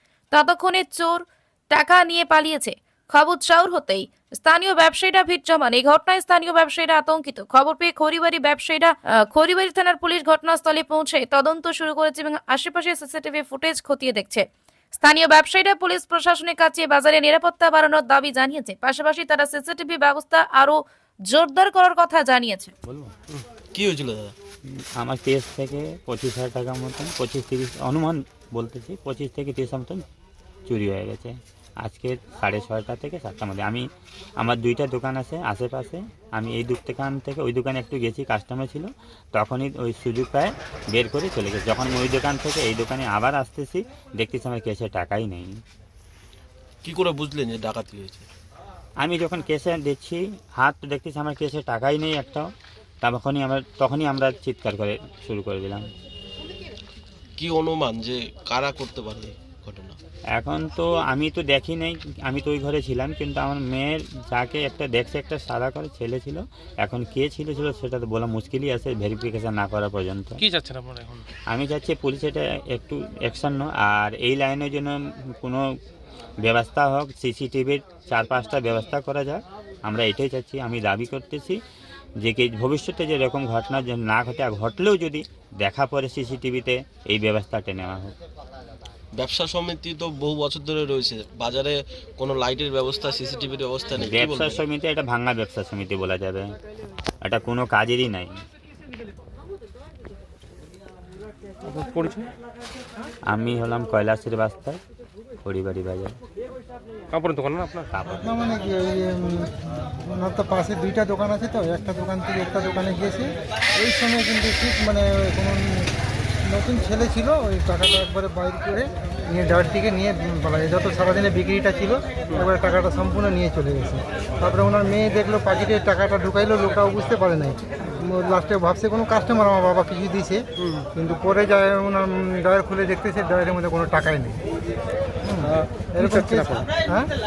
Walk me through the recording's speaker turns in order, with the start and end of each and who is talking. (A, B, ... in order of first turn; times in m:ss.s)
0:00.3-0:20.8 A
0:21.3-0:22.7 A
0:23.8-0:24.3 B
0:24.7-0:30.0 C
0:30.7-0:33.8 C
0:34.4-0:45.6 C
0:46.8-0:48.3 B
0:49.0-0:52.5 C
0:53.0-0:55.9 C
0:57.4-1:00.0 B
1:00.3-1:10.4 C
1:10.4-1:11.3 D
1:11.5-1:15.6 C
1:16.4-1:21.6 C
1:22.2-1:28.1 C
1:29.2-1:34.6 B
1:34.0-1:36.5 C
1:37.2-1:38.3 C
1:41.6-1:42.3 D
1:43.3-1:44.8 C
1:45.4-1:46.2 C
1:47.1-1:47.9 D
1:47.9-1:48.4 C
1:48.2-1:55.9 E
1:56.4-2:10.4 E
2:10.6-2:10.9 D
2:11.0-2:14.4 E
2:15.2-2:17.1 E
2:15.4-2:16.7 D